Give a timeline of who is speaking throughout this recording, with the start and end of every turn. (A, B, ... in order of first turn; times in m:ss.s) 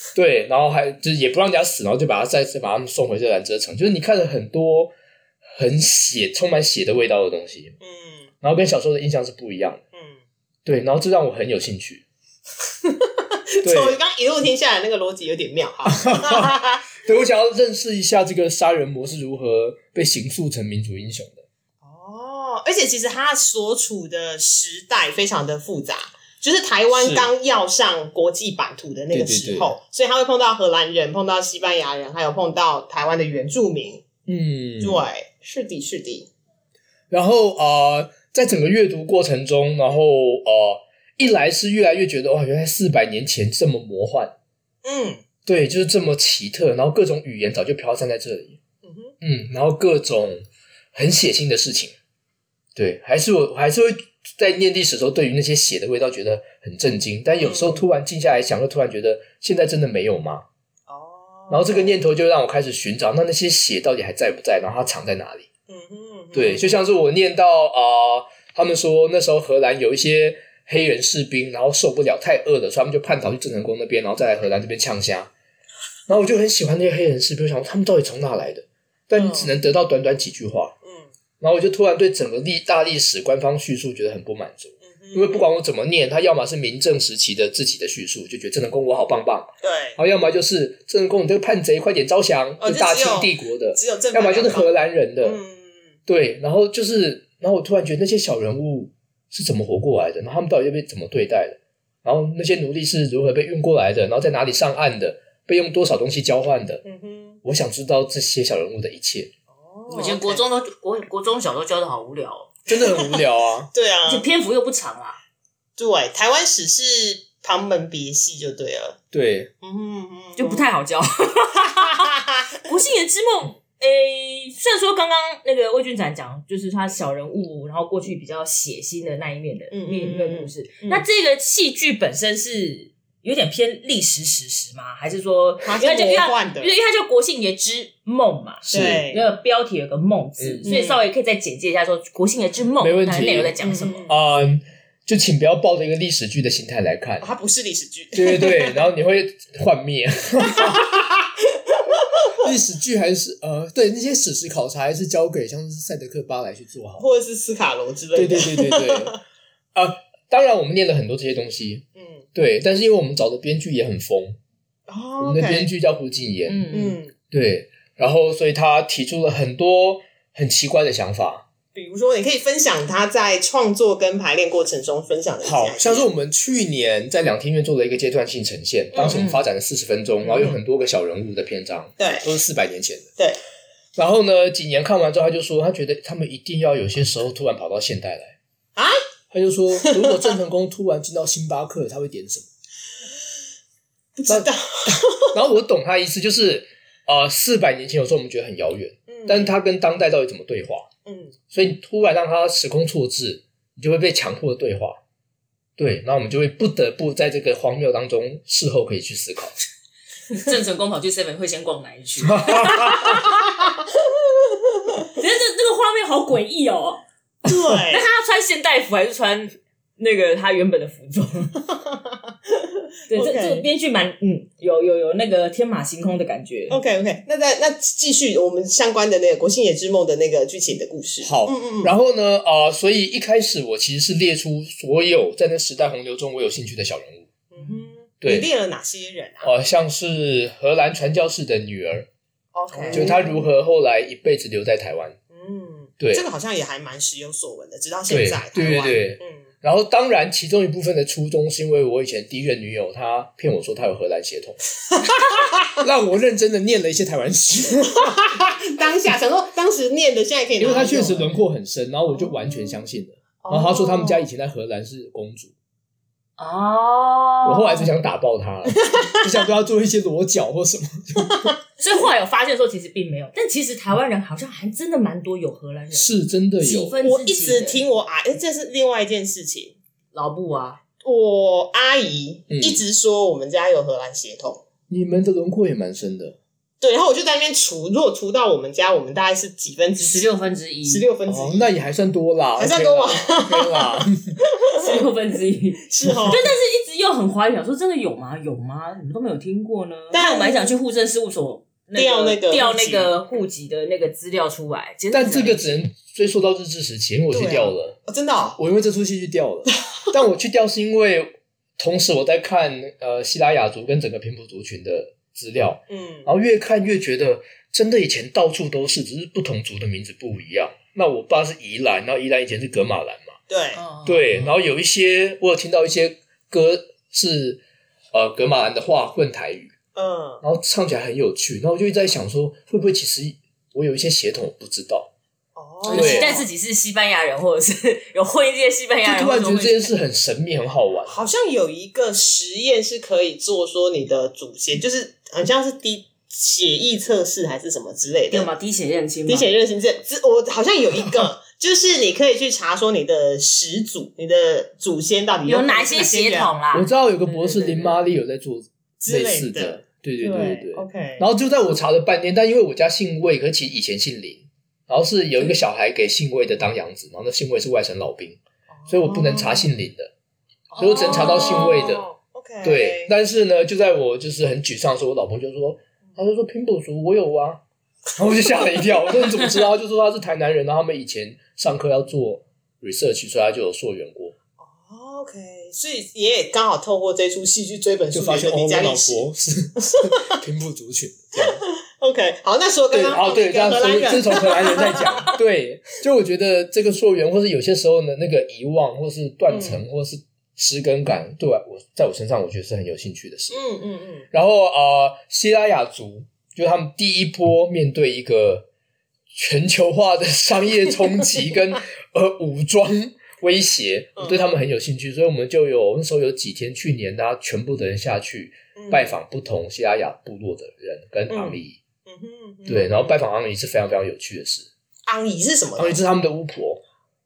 0:00.1-0:04.9 A
0:05.6-0:07.7 A
0:07.8-0:08.3 B
0:08.4-0:09.8 A
0:09.9-0:10.2 B
0:10.6-0:12.0 A
0:12.8-0:16.9 B
0:13.6-0:14.0 A
0:15.8-0:21.4 A
0:21.8-0:34.0 B
0:26.9-0:27.3 A
0:29.1-0:29.7 A
0:34.3-0:35.0 A
0:34.8-0:36.3 B
0:37.1-0:44.3 A
0:44.8-0:45.2 B
0:45.4-0:48.6 A
0:48.8-0:49.1 B
0:49.2-0:51.9 A
0:52.8-1:00.4 A
0:57.4-0:57.8 B
1:00.9-1:02.0 B
1:01.5-1:05.5 A
1:05.7-1:06.8 B
1:06.3-1:15.3 A
1:16.1-1:20.7 A
1:19.1-1:19.5 B
1:20.8-1:21.1 B
1:21.4-1:35.4 A
1:24.8-1:25.5 B
1:29.6-1:30.0 B
1:32.6-1:34.7 B
1:35.2-1:35.9 B
1:36.1-1:46.8 A
1:46.8-1:47.4 B
1:47.4-1:49.3 A
1:49.5-1:50.4 B
1:49.9-1:52.6 C
1:52.7-1:53.7 A
1:53.7-1:54.2 B
1:54.0-1:55.2 C
1:55.8-1:59.0 B
1:59.1-1:59.5 A
1:59.6-2:00.6 B
2:00.4-2:02.1 C
2:01.6-2:02.4 B
2:02.6-2:24.1 C
2:09.7-2:11.0 B
2:15.6-2:16.7 B
2:18.7-2:19.0 A
2:18.7-2:19.2 B
2:20.4-2:20.7 A
2:20.6-2:21.0 B
2:22.8-2:23.6 A
2:23.6-2:24.1 B
2:24.1-2:27.3 A
2:27.2-2:28.8 B
2:28.1-2:31.0 A
2:30.5-2:30.8 B
2:32.0-2:32.4 B
2:32.4-2:37.0 A
2:37.0-2:39.1 B
2:38.1-2:39.2 A
2:39.7-2:44.4 A
2:42.0-2:42.2 B
2:44.9-2:45.7 B
2:45.2-2:46.7 A
2:46.5-2:47.0 C
2:46.7-2:47.1 B
2:47.3-2:51.4 A
2:51.7-2:56.1 B
2:55.4-3:03.1 A
2:58.9-2:59.2 B
2:59.0-2:59.4 C
3:00.2-3:00.6 B
3:02.0-3:02.3 B
3:04.0-3:08.4 A
3:09.3-3:12.5 A
3:09.8-3:10.2 B
3:14.2-3:15.3 B
3:15.3-3:20.9 A
3:19.1-3:19.6 B
3:21.0-3:21.3 B
3:21.5-3:25.0 A
3:25.8-3:29.5 A
3:30.3-3:33.4 C
3:32.2-3:33.3 A
3:35.1-3:37.0 C
3:37.4-3:38.0 B
3:37.9-3:41.6 C
3:43.1-3:46.8 C
3:43.1-3:43.6 B
3:46.7-3:51.9 B
3:51.2-3:57.3 A
3:57.5-3:59.5 B
3:58.2-3:58.5 A
3:59.4-4:02.1 A
4:02.5-4:03.2 B
4:02.8-4:03.2 C
4:02.9-4:05.2 A
4:05.3-4:09.4 B
4:06.0-4:06.2 A
4:08.1-4:18.2 A
4:18.0-4:21.3 B
4:20.6-4:25.5 A
4:23.4-4:24.3 B
4:26.4-4:27.9 C
4:27.4-4:31.5 A
4:28.8-4:29.2 B
4:31.3-4:31.6 B
4:31.8-4:37.8 C
4:35.9-4:37.0 A
4:37.0-4:39.8 B
4:40.1-4:40.8 C
4:41.0-4:44.6 B
4:42.5-4:42.8 A
4:44.9-4:46.4 A
4:46.8-4:50.3 B
4:50.0-4:51.1 C
4:50.8-4:51.7 B
4:51.3-4:54.3 A
4:52.6-4:54.0 B
4:54.7-5:05.6 C
4:55.9-4:56.4 B
5:00.1-5:00.7 B
5:02.0-5:03.1 B
5:05.1-5:08.0 A
5:07.3-5:08.6 B
5:08.6-5:23.4 A
5:15.9-5:16.3 B
5:23.5-5:23.8 B
5:23.8-5:24.5 C
5:24.0-5:27.6 A
5:28.1-5:29.7 A
5:30.0-5:30.4 B
5:30.4-5:35.1 A
5:35.6-5:36.4 B
5:35.9-5:39.9 C
5:35.9-5:36.4 A
5:39.0-5:41.2 A
5:41.1-5:48.5 B
5:48.3-5:49.5 C
5:49.3-5:56.5 B
5:55.5-5:58.0 C
5:56.7-6:10.1 A
5:59.0-6:01.2 B
6:08.7-6:09.7 B
6:10.7-6:13.1 B
6:10.8-6:12.1 A
6:10.8-6:11.9 C
6:12.6-6:17.6 A
6:18.2-6:24.3 A
6:24.6-6:29.2 B
6:28.1-6:31.6 A
6:29.8-6:30.4 B
6:31.4-6:35.3 B
6:32.9-6:43.6 A
6:34.6-6:34.9 C
6:39.5-6:39.8 B
6:43.5-6:44.3 B
6:44.3-6:48.7 A
6:49.3-7:01.8 A
6:54.2-6:54.5 B
6:58.8-6:59.1 B
7:01.3-7:03.2 B
7:02.7-7:04.7 A
7:05.1-7:06.0 B
7:05.8-7:06.8 A